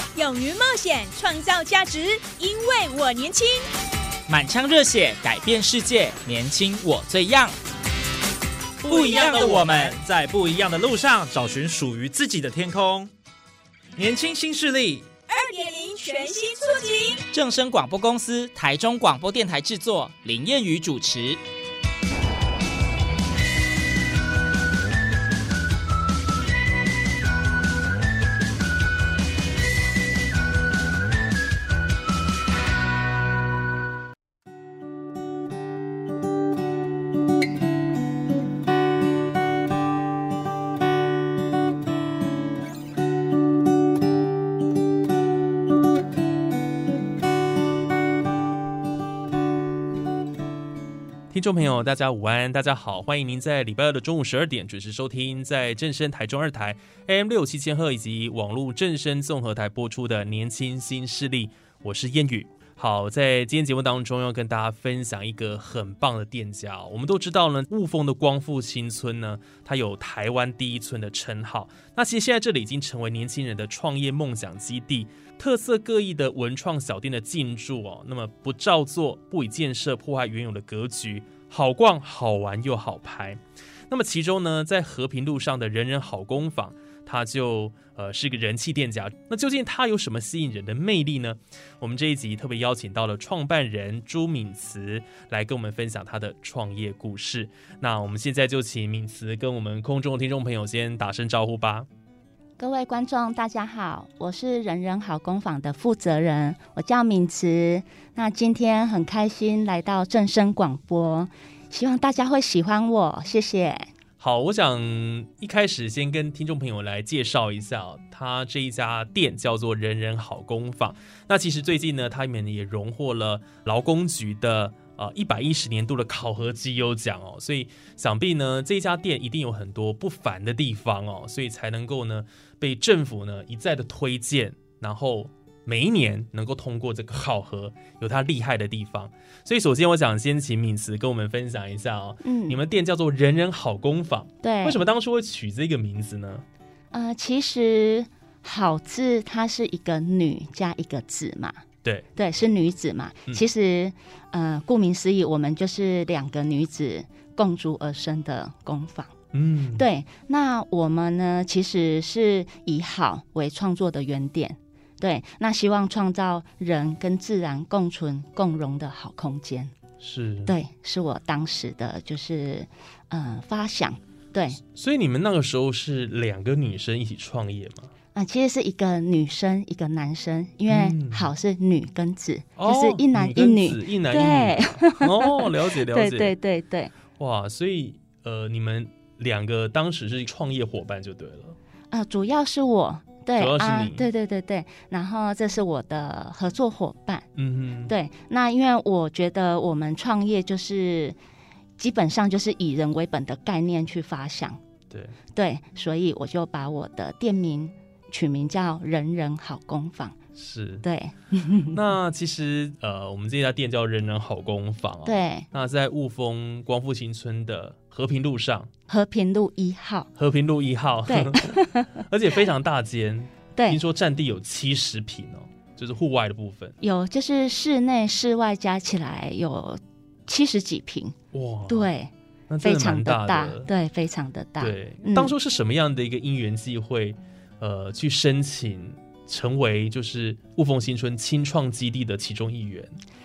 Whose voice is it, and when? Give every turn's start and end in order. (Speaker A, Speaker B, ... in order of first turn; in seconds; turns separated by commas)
Speaker A: 0.1-3.7, Speaker B: 4.3-7.5, Speaker C: 8.8-13.1, Speaker B: 8.9-10.0, Speaker C: 13.9-15.1, Speaker A: 15.3-17.2, Speaker B: 17.3-21.4, Speaker D: 51.3-101.9, Speaker E: 102.6-113.9, Speaker D: 114.2-146.4, Speaker E: 142.2-142.6, Speaker E: 144.4-144.8, Speaker E: 146.9-151.6, Speaker E: 152.2-159.1, Speaker D: 159.3-159.8, Speaker E: 159.8-169.7, Speaker D: 170.0-170.5, Speaker E: 170.4-174.6, Speaker D: 174.6-177.9, Speaker E: 178.1-186.9, Speaker D: 180.7-181.3, Speaker D: 182.6-186.3, Speaker D: 187.2-191.6, Speaker E: 191.9-197.3, Speaker D: 193.3-194.1, Speaker D: 197.3-197.9, Speaker E: 197.8-201.2, Speaker E: 201.8-204.6, Speaker D: 204.9-205.2, Speaker E: 205.3-210.2, Speaker D: 210.3-210.8, Speaker E: 210.8-211.8, Speaker D: 211.7-218.7, Speaker E: 215.0-215.4, Speaker E: 218.9-220.1, Speaker D: 220.2-226.8, Speaker E: 221.1-222.0, Speaker E: 226.8-231.1, Speaker D: 231.3-231.9, Speaker E: 231.7-235.3, Speaker D: 232.5-233.7, Speaker D: 234.6-243.0